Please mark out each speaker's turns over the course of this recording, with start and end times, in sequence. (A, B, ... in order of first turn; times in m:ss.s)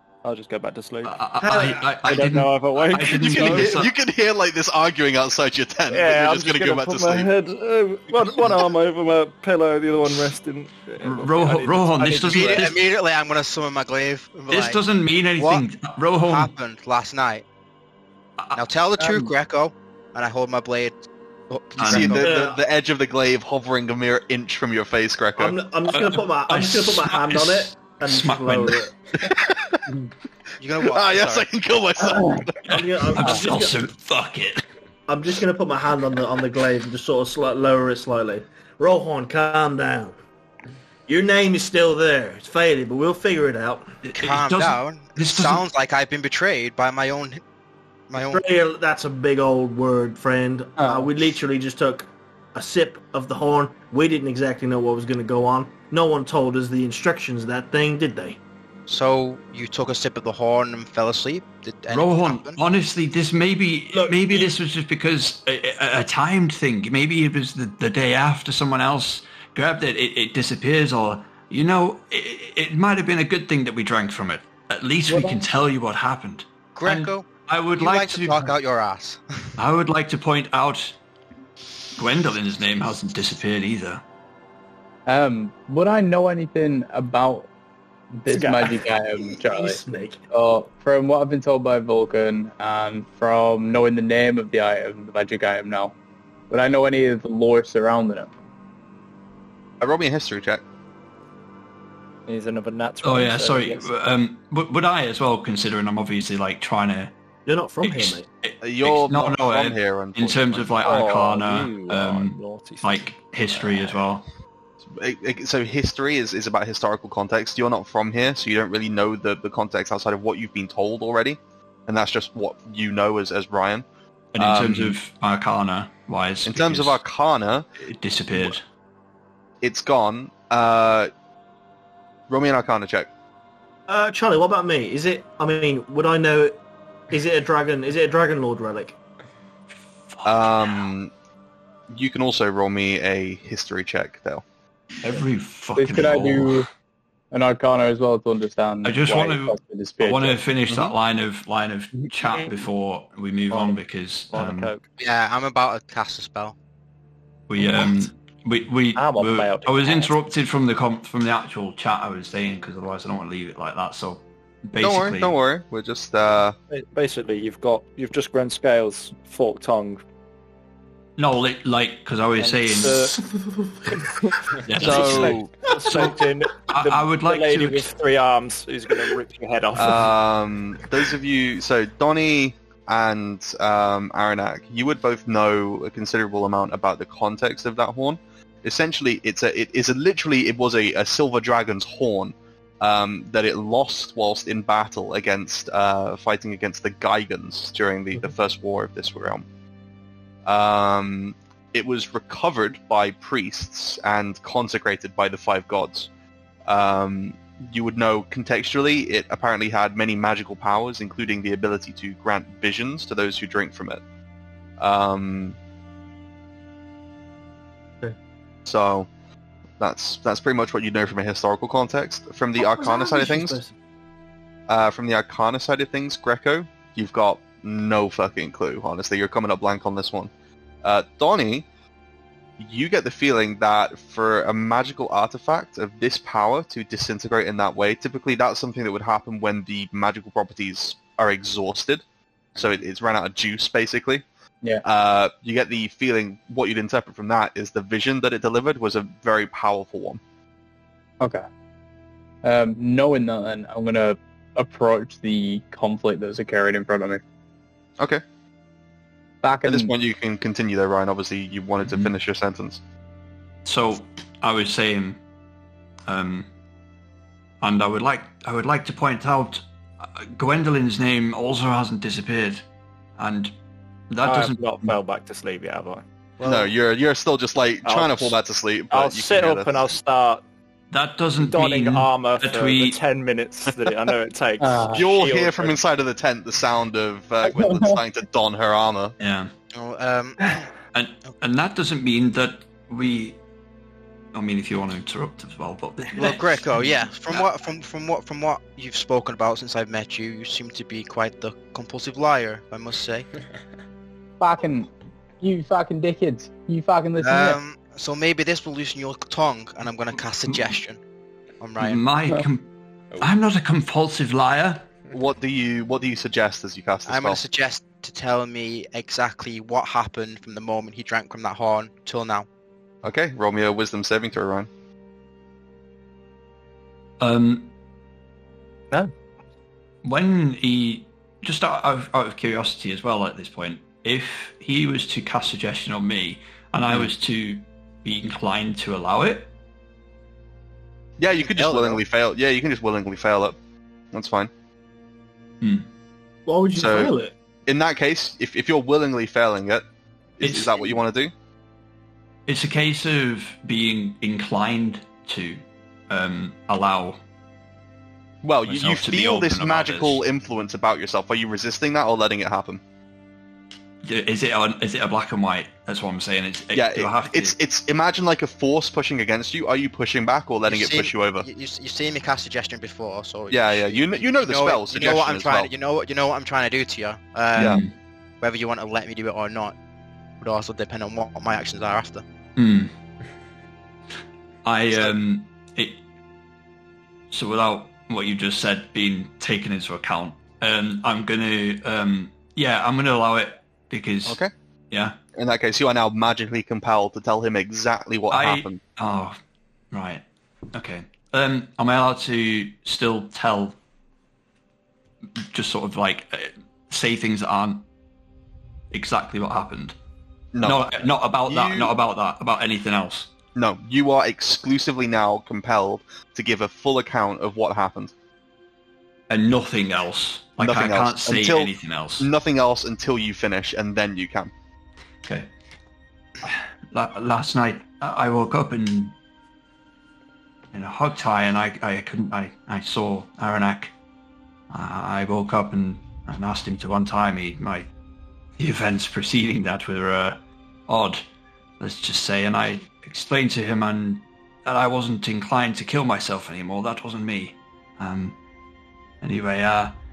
0:00.2-0:03.9 A
0:01.0-0:03.9 B
0:01.4-0:01.8 C
0:03.1-0:07.3 D
0:05.9-0:12.6 A
0:11.0-0:12.9 B
0:12.2-0:14.8 E
0:14.5-0:16.5 B
0:15.4-0:15.6 E
0:16.2-0:17.4 E
0:18.5-0:22.3 E
0:19.0-0:19.3 F
0:21.8-0:22.2 B
0:21.8-0:25.6 D
0:22.2-0:22.6 C
0:25.4-0:28.9 C
0:25.9-0:28.8 B
0:29.2-0:29.8 D
0:30.6-0:31.5 E
0:30.8-0:32.7 D
0:32.1-0:32.5 F
0:32.6-0:33.9 C
0:32.7-0:34.6 B
0:35.1-0:40.2 C
0:41.1-0:43.9 C
0:44.0-0:45.6 B
0:44.2-0:47.4 E
0:48.1-0:48.4 E
0:48.2-0:58.4 C
0:50.8-0:51.1 F
0:58.9-1:02.6 E
1:01.9-1:18.6 B
1:03.9-1:04.5 C
1:15.1-1:15.5 F
1:16.7-1:19.5 E
1:19.6-1:21.0 B
1:21.9-1:24.0 B
1:25.1-1:27.5 F
1:28.1-1:29.8 F
1:28.3-1:30.2 C
1:30.3-1:35.9 F
1:36.5-1:38.3 F
1:39.8-1:40.6 D
1:42.3-1:43.9 A
1:43.0-1:47.1 B
1:47.4-1:48.2 C
1:47.8-1:54.2 B
1:48.6-1:51.0 D
1:50.8-1:54.0 A
1:54.9-2:03.8 D
2:04.3-2:07.0 B
2:04.4-2:05.0 D
2:06.4-2:07.6 D
2:07.8-2:08.6 B
2:09.6-2:11.1 D
2:12.3-2:13.1 D
2:13.9-2:16.6 C
2:17.1-2:19.0 C
2:20.1-2:20.9 B
2:20.2-2:21.1 D
2:21.9-2:24.4 D
2:25.0-2:26.6 B
2:25.8-2:26.7 F
2:27.3-2:30.4 F
2:28.8-2:34.7 B
2:32.4-2:32.7 A
2:33.5-2:33.8 A
2:34.3-2:34.8 A
2:35.0-2:36.6 E
2:37.5-2:45.3 B
2:38.9-2:40.2 A
2:44.8-2:46.6 D
2:46.7-2:50.0 A
2:51.2-2:53.1 B
2:52.4-2:53.2 A
2:53.1-2:54.0 C
2:53.9-3:00.1 A
2:54.6-2:57.9 B
2:54.8-2:55.5 D
2:59.8-3:19.4 D
3:20.4-3:26.1 D
3:26.6-3:34.0 D
3:34.8-3:35.6 D
3:38.6-3:39.1 D
3:39.8-3:43.6 D
3:42.6-3:43.7 C
3:44.7-3:50.3 D
3:50.8-3:51.6 D
3:52.6-4:02.0 D
4:02.6-4:04.2 D
4:04.8-4:10.2 D
4:12.4-4:17.2 F
4:19.4-4:19.9 F
4:19.6-4:22.8 D
4:21.8-4:22.1 B
4:23.6-4:25.2 B
4:26.1-4:26.5 B
4:27.6-4:32.6 B
4:33.2-4:33.5 B
4:34.1-4:35.0 B
4:34.2-4:36.0 A
4:36.4-4:39.7 D
4:37.8-4:38.4 A
4:38.9-4:40.4 A
4:40.9-4:43.0 B
4:41.4-4:45.8 A
4:44.6-4:45.1 F
4:44.9-4:49.1 D
4:47.4-4:48.0 F
4:49.2-4:49.5 B
4:49.7-4:50.7 E
4:50.9-4:53.4 B
4:54.3-4:57.5 B
4:56.1-5:03.3 E
5:04.4-5:04.9 F
5:05.4-5:07.6 F
5:07.2-5:11.0 E
5:10.5-5:10.7 B
5:11.6-5:12.0 E
5:11.8-5:14.9 B
5:15.1-5:17.4 D
5:17.1-5:22.5 E
5:23.0-5:24.7 D
5:27.2-5:27.7 B
5:30.0-5:39.5 B
5:41.2-5:43.6 D
5:41.4-5:42.0 E
5:44.1-5:44.5 D
5:45.6-5:45.9 B
5:46.5-5:47.3 C
5:46.8-5:47.1 D
5:47.7-5:49.8 D
5:50.4-5:51.3 D
5:50.4-5:51.0 B
5:52.5-5:57.2 B
5:58.4-6:02.8 D
5:58.6-6:00.2 B
6:04.0-6:07.6 B
6:06.7-6:11.4 D
6:10.7-6:17.8 E
6:13.5-6:15.7 D
6:17.6-6:17.8 D
6:17.6-6:17.9 B
6:18.4-6:19.8 E
6:20.4-6:22.2 E
6:22.6-6:22.9 B
6:24.6-6:26.0 B
6:27.3-6:34.4 B
6:34.2-6:34.5 D
6:34.9-6:35.2 B
6:35.3-6:38.8 D
6:38.3-6:39.4 B
6:39.9-6:43.8 B
6:45.4-6:47.9 B
6:48.9-6:49.9 B
6:50.5-6:50.8 D
6:50.6-6:53.3 B
6:51.4-6:51.9 D
6:53.5-6:58.1 D
6:59.3-7:02.3 B
7:00.6-7:04.5 D
7:05.2-7:05.5 B
7:06.4-7:09.1 B
7:10.7-7:13.9 B
7:14.7-7:17.9 B
7:18.6-7:21.2 B
7:21.8-7:28.4 B
7:29.2-7:29.9 B